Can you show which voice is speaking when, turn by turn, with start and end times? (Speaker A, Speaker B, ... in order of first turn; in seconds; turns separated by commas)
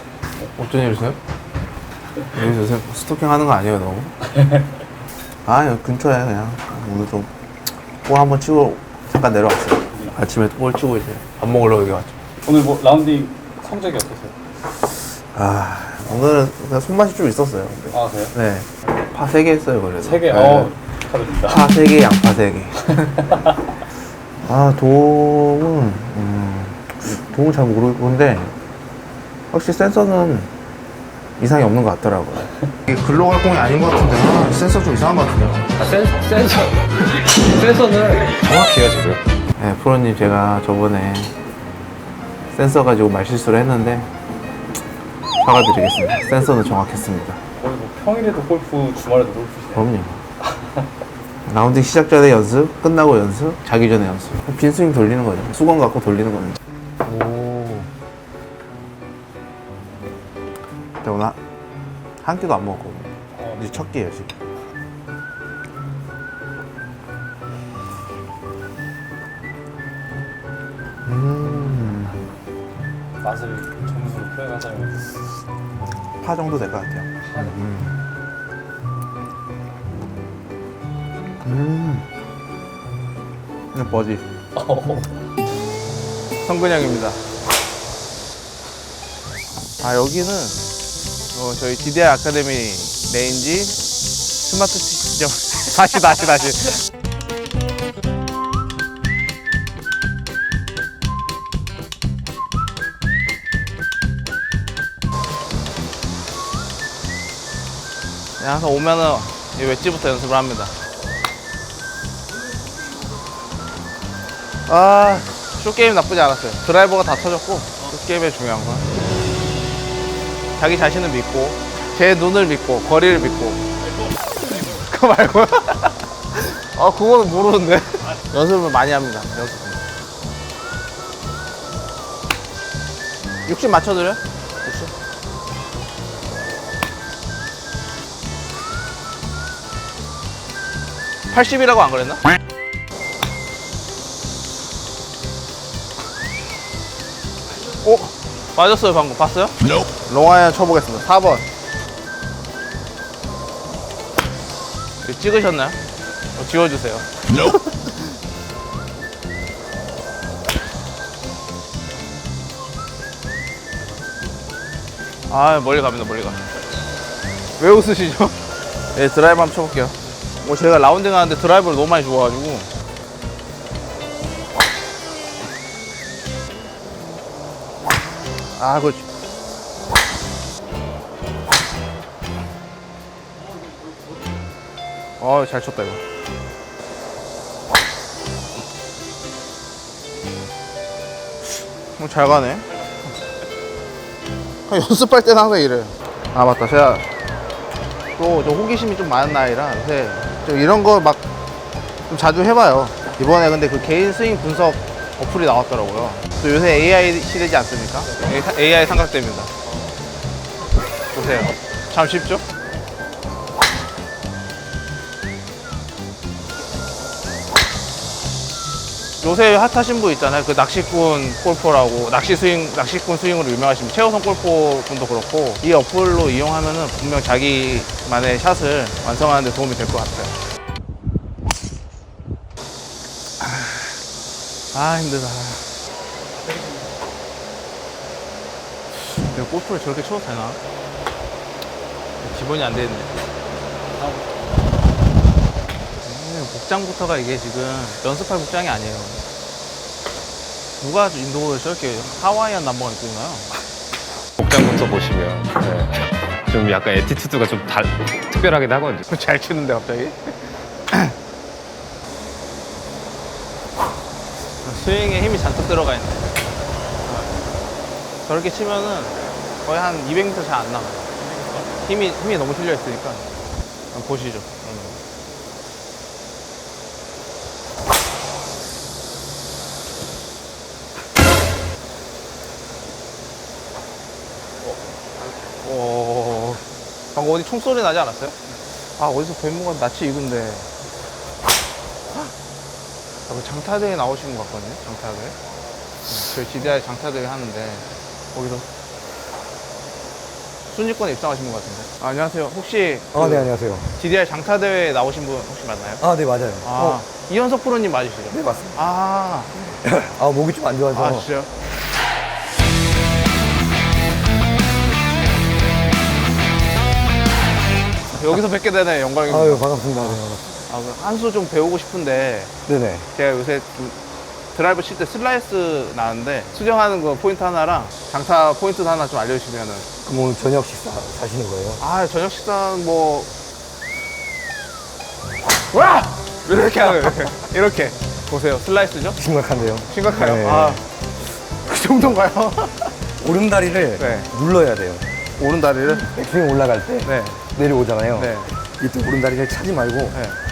Speaker A: 0.5-1.2, Speaker A: 2.3-4.1, Speaker A: 5.5-7.3, Speaker A: 8.1-12.1, Speaker B: 12.4-14.3, Speaker A: 15.3-20.7, Speaker B: 17.9-18.4, Speaker B: 20.0-21.8, Speaker A: 21.5-23.2, Speaker B: 23.0-23.4, Speaker A: 24.4-28.6, Speaker A: 29.5-30.5, Speaker A: 31.4-35.6, Speaker C: 35.8-36.8, Speaker C: 37.4-39.2, Speaker A: 39.6-41.3, Speaker A: 42.6-44.1, Speaker A: 45.4-47.4, Speaker B: 47.6-49.9, Speaker A: 49.7-50.2, Speaker A: 51.5-56.6, Speaker D: 57.1-57.9, Speaker A: 61.0-61.4, Speaker A: 62.2-64.3, Speaker B: 63.4-63.8, Speaker A: 71.1-72.1, Speaker B: 73.2-75.2, Speaker A: 76.2-77.9, Speaker B: 77.3-77.5, Speaker A: 81.4-82.0, Speaker A: 83.7-84.2, Speaker B: 84.6-85.1, Speaker A: 86.4-87.2, Speaker A: 89.8-90.6, Speaker A: 91.3-93.8, Speaker A: 94.5-96.8, Speaker A: 108.4-110.7, Speaker A: 114.7-118.8, Speaker A: 120.6-123.6, Speaker A: 124.5-129.8, Speaker A: 133.5-134.9, Speaker A: 141.3-142.2, Speaker A: 147.8-151.5, Speaker A: 155.0-155.8, Speaker A: 156.3-158.0, Speaker A: 165.3-166.4, Speaker A: 167.6-168.4, Speaker A: 168.9-172.7, Speaker A: 178.6-179.1, Speaker A: 185.2-186.0, Speaker A: 192.0-192.7, Speaker A: 194.7-197.1, Speaker A: 198.2-201.2, Speaker A: 202.1-209.5, Speaker A: 211.1-212.4, Speaker A: 219.2-230.3, Speaker A: 233.4-233.9, Speaker A: 234.7-235.8, Speaker A: 239.0-240.6, Speaker A: 242.2-243.1, Speaker A: 246.0-249.2, Speaker A: 250.8-253.5, Speaker C: 254.4-259.1, Speaker A: 259.1-260.3, Speaker A: 264.6-266.3, Speaker A: 268.2-271.1, Speaker A: 271.8-273.2, Speaker A: 273.9-275.0, Speaker A: 285.6-286.6, Speaker A: 287.1-288.4, Speaker A: 289.0-290.7, Speaker A: 293.3-295.4, Speaker A: 296.1-298.7, Speaker A: 300.7-306.0, Speaker D: 303.1-303.9, Speaker D: 306.0-307.0, Speaker A: 306.6-309.5, Speaker D: 308.3-308.8, Speaker D: 309.7-311.3, Speaker A: 310.9-311.5, Speaker A: 318.1-320.2, Speaker D: 319.3-320.6, Speaker A: 320.7-322.5, Speaker D: 322.7-323.1, Speaker A: 323.1-324.0, Speaker A: 324.5-329.9, Speaker D: 330.0-331.8, Speaker A: 331.8-333.3, Speaker A: 335.7-339.2, Speaker D: 339.2-340.8, Speaker A: 339.9-340.9, Speaker A: 341.6-342.9, Speaker D: 343.2-345.1, Speaker A: 344.0-344.3, Speaker A: 345.4-346.1, Speaker D: 346.0-350.2, Speaker A: 347.0-347.4, Speaker A: 348.1-348.5, Speaker A: 350.1-350.4